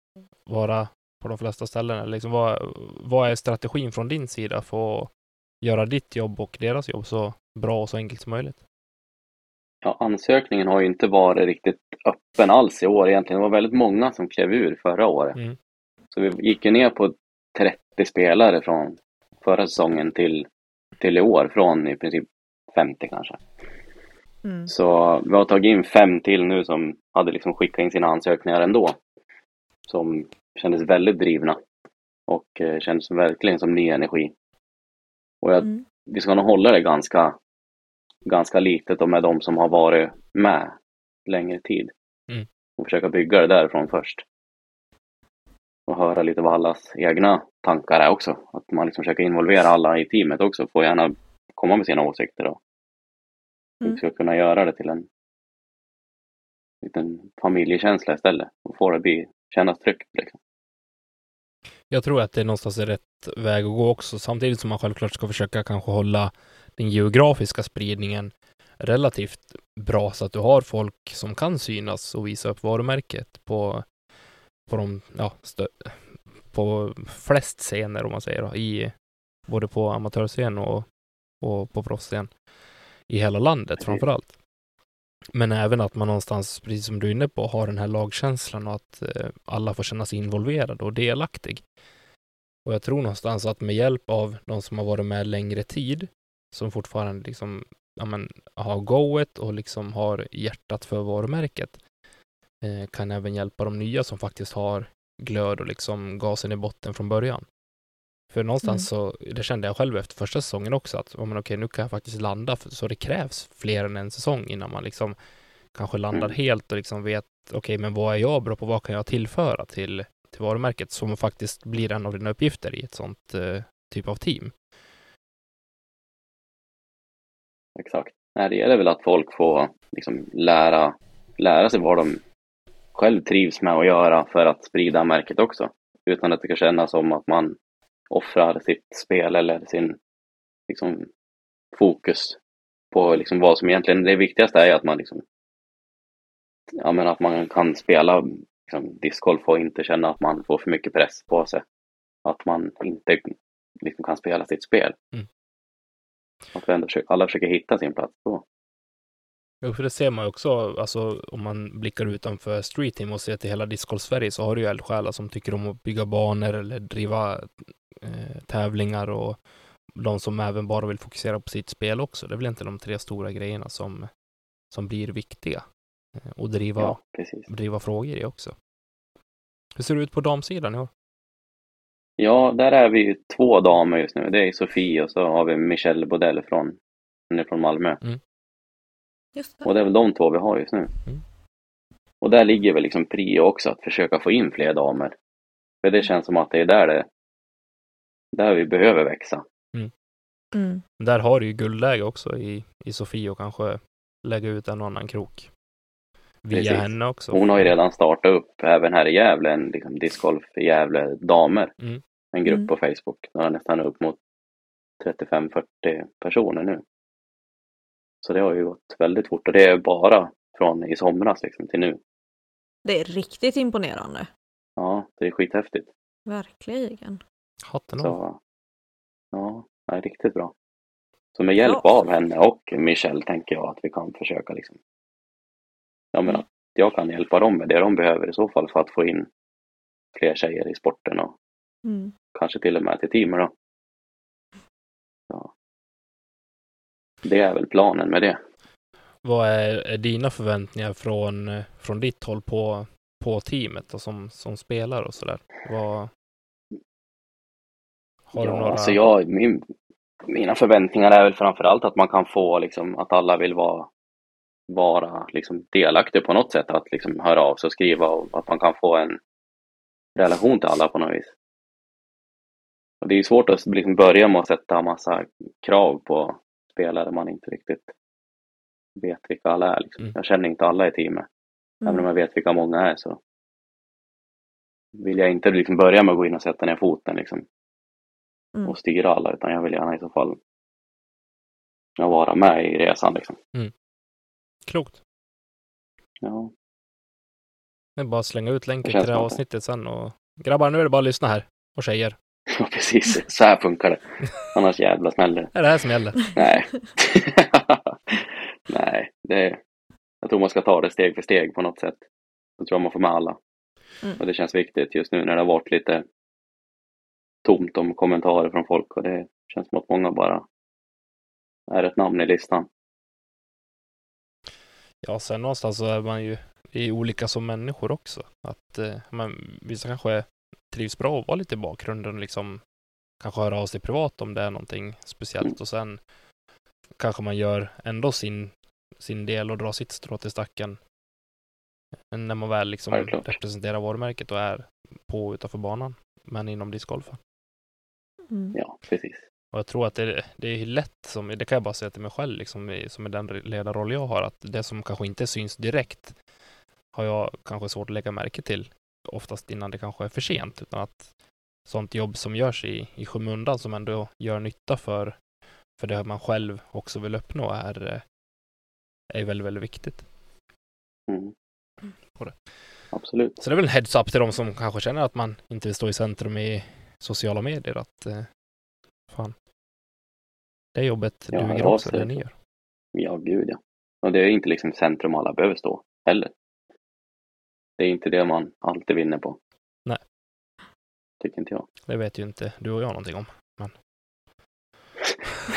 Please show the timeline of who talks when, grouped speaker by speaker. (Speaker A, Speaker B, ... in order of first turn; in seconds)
Speaker A: 0.5-5.1, 5.6-8.6, 61.9-73.8, 74.7-78.9, 79.5-80.9, 81.4-82.3, 83.1-84.3, 85.3-91.6, 92.7-101.8, 102.6-107.5, 108.3-115.2, 115.7-124.5, 159.6-169.4, 169.9-174.1, 174.7-175.6, 176.3-177.0, 177.5-178.5, 179.8-180.9, 201.0-205.5, 206.4-207.7, 227.7-228.2, 249.2-256.1, 258.3-259.0, 294.7-295.0, 298.0-302.1, 305.6-306.3, 325.0-332.6, 333.2-336.0, 337.0-340.8, 342.1-347.2, 349.5-356.1, 356.9-361.0, 361.7-365.2, 365.8-368.0, 369.1-370.1, 373.4-378.3, 380.8-382.3, 391.9-393.7
Speaker B: 9.8-15.4, 16.1-20.5, 21.0-23.4, 24.7-29.0, 29.9-31.6, 32.3-34.3, 35.4-37.4, 38.3-40.8, 41.3-41.9, 42.8-44.2, 45.9-52.6, 53.9-55.1, 56.8-60.4, 127.8-132.2, 132.9-137.6, 138.1-140.0, 140.7-141.1, 141.7-142.4, 142.9-145.2, 146.8-151.6, 152.2-155.0, 156.6-158.4, 176.8-177.5, 182.2-186.8, 187.3-188.0, 189.7-190.9, 192.2-195.2, 195.8-197.1, 198.3-199.4, 206.5-211.7, 212.3-214.2, 215.0-216.8, 218.2-222.0, 224.8-225.9, 228.0-228.4, 229.3-230.5, 231.3-234.8, 236.1-239.3, 240.1-241.3, 242.3-243.5, 247.2-248.4, 258.4-259.6, 260.3-263.9, 264.7-269.2, 270.2-271.3, 273.0-277.9, 279.0-281.3, 281.9-283.2, 285.0-287.4, 288.7-290.4, 292.0-293.4, 296.2-296.5, 298.8-299.4, 302.5-305.5, 306.3-309.6, 310.2-312.0, 312.6-313.4, 314.2-316.0, 317.4-320.4, 321.7-322.7, 342.9-343.3, 348.6-349.2, 371.1-371.3, 372.9-373.4, 381.3-382.1, 382.9-386.3, 387.8-389.4, 391.2-391.7
Speaker C: 24.4-24.7, 189.4-189.7, 200.5-200.8, 222.8-224.3, 226.3-227.2, 231.6-231.9, 241.8-242.1, 348.3-348.6